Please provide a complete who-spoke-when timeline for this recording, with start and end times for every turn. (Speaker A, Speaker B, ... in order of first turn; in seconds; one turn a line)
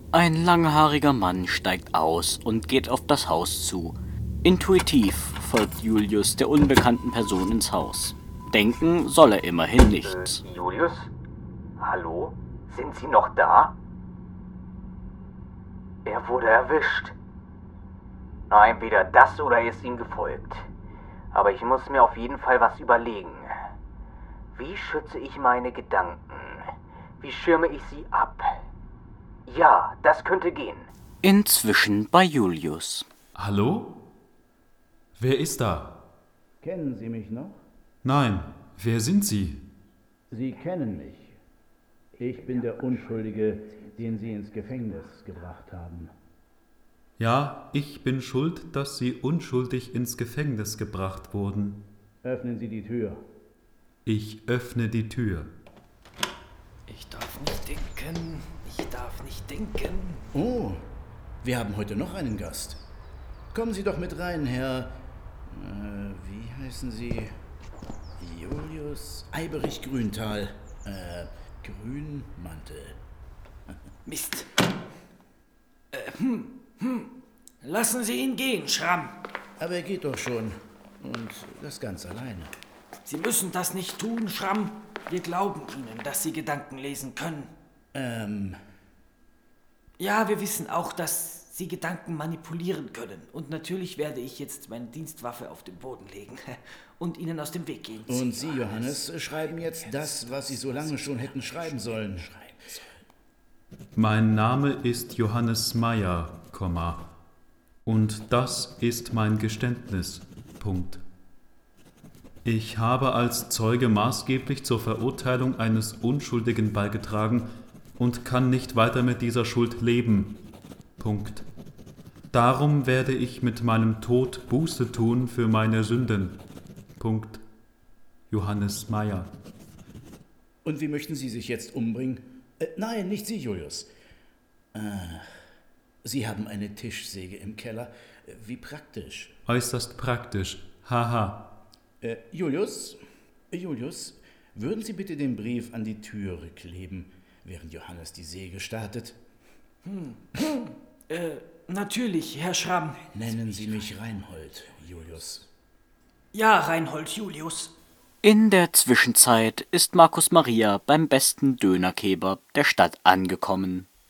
Speaker A: 0.1-10.4
Speaker B: 10.0-11.1
Speaker B: 11.8-13.7
Speaker B: 16.0-17.1
Speaker B: 18.5-20.7
Speaker B: 21.3-23.5
Speaker B: 24.5-28.5
Speaker B: 29.5-30.9
Speaker A: 31.2-33.0
Speaker C: 33.4-34.0
Speaker C: 35.1-36.0
Speaker D: 36.6-37.6
Speaker C: 38.0-39.6
Speaker D: 40.3-41.3
Speaker D: 42.2-46.1
Speaker C: 47.2-51.9
Speaker D: 52.2-53.2
Speaker C: 54.0-55.5
Speaker E: 56.9-60.2
Speaker D: 60.3-60.8
Speaker D: 61.4-62.8
Speaker D: 63.5-64.9
Speaker D: 65.5-67.3
Speaker D: 68.2-73.0
Speaker E: 74.0-74.5
Speaker E: 75.9-77.1
Speaker E: 77.6-79.2
Speaker D: 79.6-82.5
Speaker E: 83.1-87.5
Speaker D: 87.9-88.6
Speaker E: 90.0-98.9
Speaker D: 98.1-102.3
Speaker B: 101.2-102.8
Speaker C: 103.9-107.0
Speaker C: 107.8-111.0
Speaker C: 112.4-117.5
Speaker C: 118.0-120.4
Speaker C: 121.0-121.4
Speaker C: 122.3-126.4
Speaker C: 127.0-127.4
Speaker C: 128.3-129.3
Speaker D: 130.6-133.9
Speaker D: 134.7-135.3
Speaker D: 136.0-139.3
Speaker C: 139.4-141.5
Speaker D: 142.0-143.0
Speaker D: 143.5-149.2
Speaker E: 149.8-153.0
Speaker D: 153.1-155.5
Speaker E: 156.3-157.7
Speaker A: 158.2-163.9